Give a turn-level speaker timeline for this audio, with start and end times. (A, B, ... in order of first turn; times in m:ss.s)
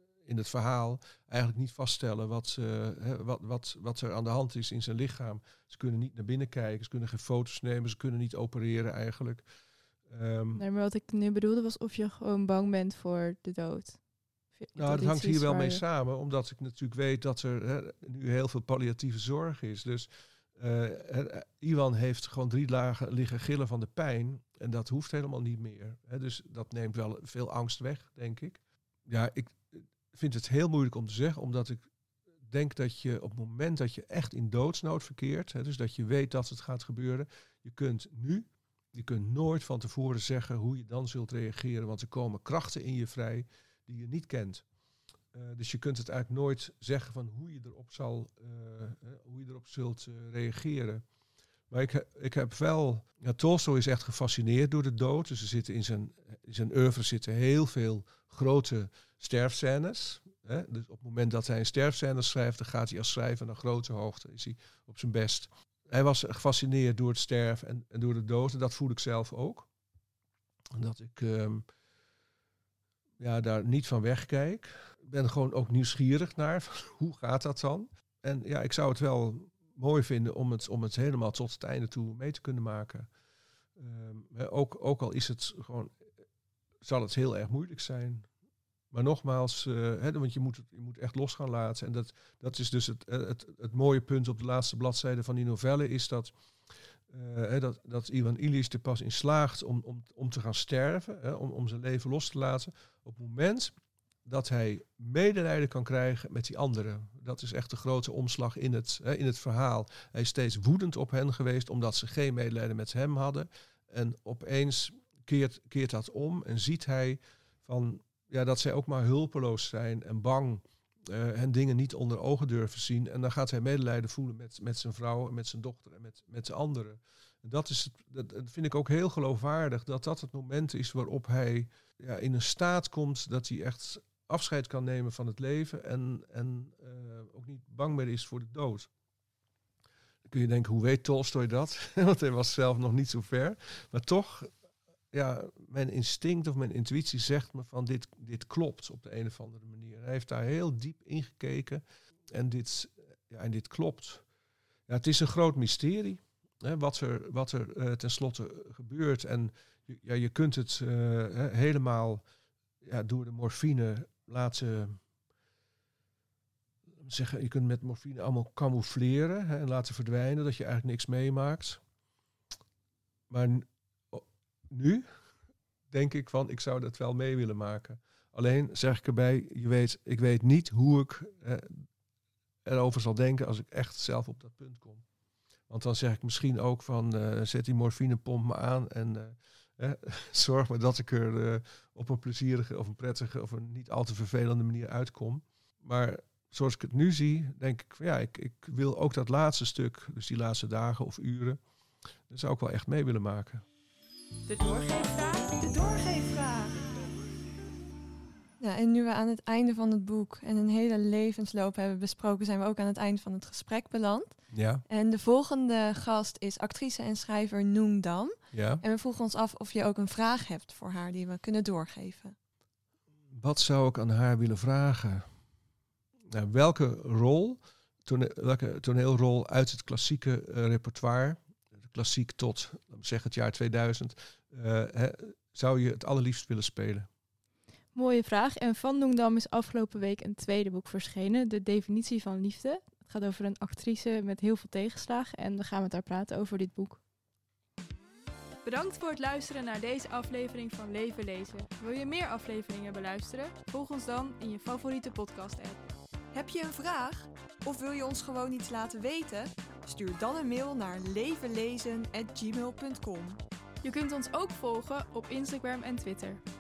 0:00.2-0:09.4 A
0:10.1-0:10.6 A
0:10.5-0:14.0 B
0:14.6-0:15.8 B
0:14.7-0:31.9 A
0:32.5-0:44.6 A
0:45.3-0:51.0 A
0:51.7-1:09.7 A
1:10.7-1:11.6 A
1:13.2-1:23.1 A
1:23.8-1:25.9 A
1:26.8-1:28.3 A
1:28.9-1:36.3 A
1:37.1-1:43.7 A
1:44.2-2:18.9 A
2:20.3-2:24.5 A
2:25.1-2:31.8 A
2:32.3-2:34.2 A
2:34.9-2:42.2 A
2:42.8-2:45.0 A
2:47.0-2:51.8 A
2:53.3-2:55.0 A
2:55.9-3:01.8 A
3:02.6-3:05.0 A
3:05.7-3:21.6 A
3:22.3-3:23.6 A
3:24.5-3:27.0 C
3:28.6-3:34.4 C
3:34.5-3:34.8 A
3:34.9-3:42.4 C
3:38.5-3:38.8 A
3:43.3-3:45.3 A
3:46.3-3:57.1 A
3:57.9-4:07.0 B
4:08.6-4:15.8 B
4:16.3-4:23.4 C
4:23.8-4:26.4 B